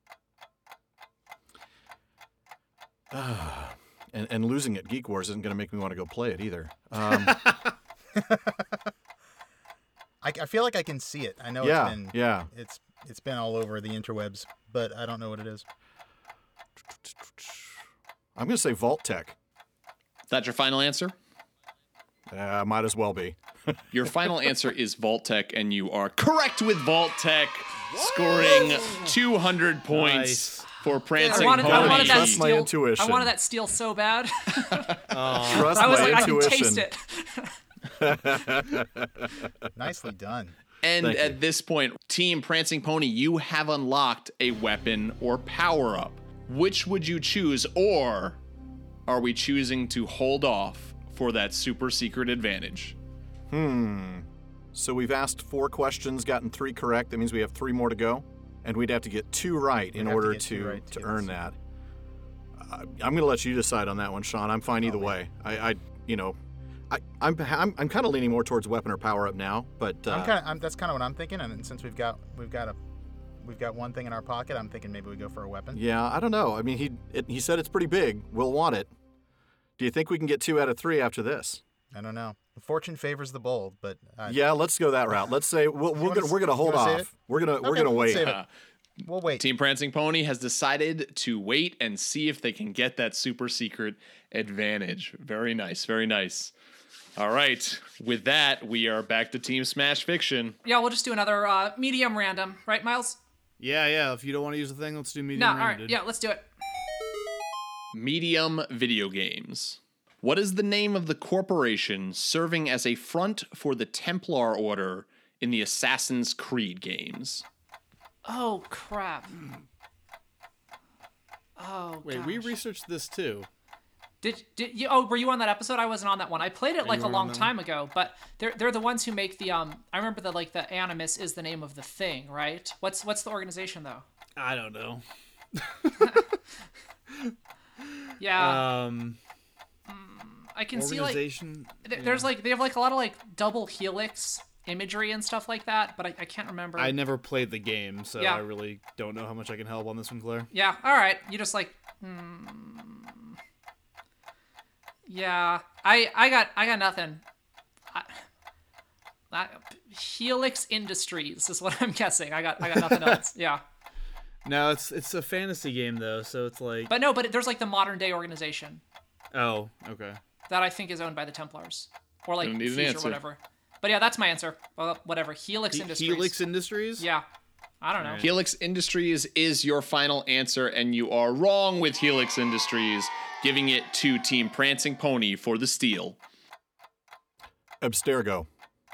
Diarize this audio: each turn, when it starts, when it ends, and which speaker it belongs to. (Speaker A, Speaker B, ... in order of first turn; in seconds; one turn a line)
Speaker A: 3.1-7.5
Speaker B: 8.2-8.6
Speaker B: 10.2-15.6
Speaker A: 11.6-12.5
Speaker A: 17.2-17.7
Speaker A: 18.4-19.3
Speaker C: 20.3-21.1
Speaker A: 22.3-24.5
Speaker C: 23.9-32.4
Speaker D: 27.9-29.1
Speaker D: 29.9-32.1
Speaker E: 31.1-37.6
Speaker A: 31.6-33.3
Speaker D: 35.1-36.5
Speaker A: 35.4-36.9
Speaker A: 37.9-39.5
Speaker B: 39.7-40.5
Speaker C: 40.8-48.4
Speaker A: 41.0-41.4
Speaker C: 49.1-53.0
Speaker A: 53.5-61.5
Speaker B: 59.9-61.4
Speaker A: 62.6-66.4
Speaker B: 64.8-65.2
Speaker A: 66.9-70.3
Speaker B: 70.1-72.8
Speaker B: 73.4-75.8
Speaker A: 75.7-78.9
Speaker A: 79.8-81.6
Speaker B: 81.9-84.5
Speaker A: 84.2-88.4
Speaker B: 86.0-88.4
Speaker C: 88.2-88.5
Speaker B: 89.0-89.4
Speaker C: 89.4-96.5
Speaker C: 97.2-100.6
Speaker E: 100.6-103.2
Speaker D: 103.6-106.0
Speaker E: 105.3-106.5
Speaker C: 107.9-117.4
Speaker E: 118.2-119.4
Speaker E: 121.6-122.5
Speaker D: 122.0-123.5
Speaker E: 124.2-134.0
Speaker D: 126.8-127.5
Speaker D: 134.3-135.0
Speaker D: 135.5-136.2
Speaker E: 138.2-138.7
Speaker D: 138.3-139.2
Speaker E: 139.9-141.3
Speaker D: 140.7-142.3
Speaker E: 141.8-147.0
Speaker D: 146.8-150.5
Speaker E: 148.2-148.4
Speaker E: 150.5-153.3
Speaker E: 155.1-157.2
Speaker E: 157.9-158.2
Speaker E: 159.3-163.6
Speaker D: 162.7-163.2
Speaker D: 164.4-166.9
Speaker E: 166.9-168.8
Speaker D: 169.3-170.2
Speaker E: 170.5-176.4
Speaker C: 172.4-173.2
Speaker D: 175.7-177.1
Speaker E: 177.0-177.2
Speaker E: 177.8-178.3
Speaker D: 178.0-178.3
Speaker C: 178.2-186.2
Speaker A: 187.8-188.5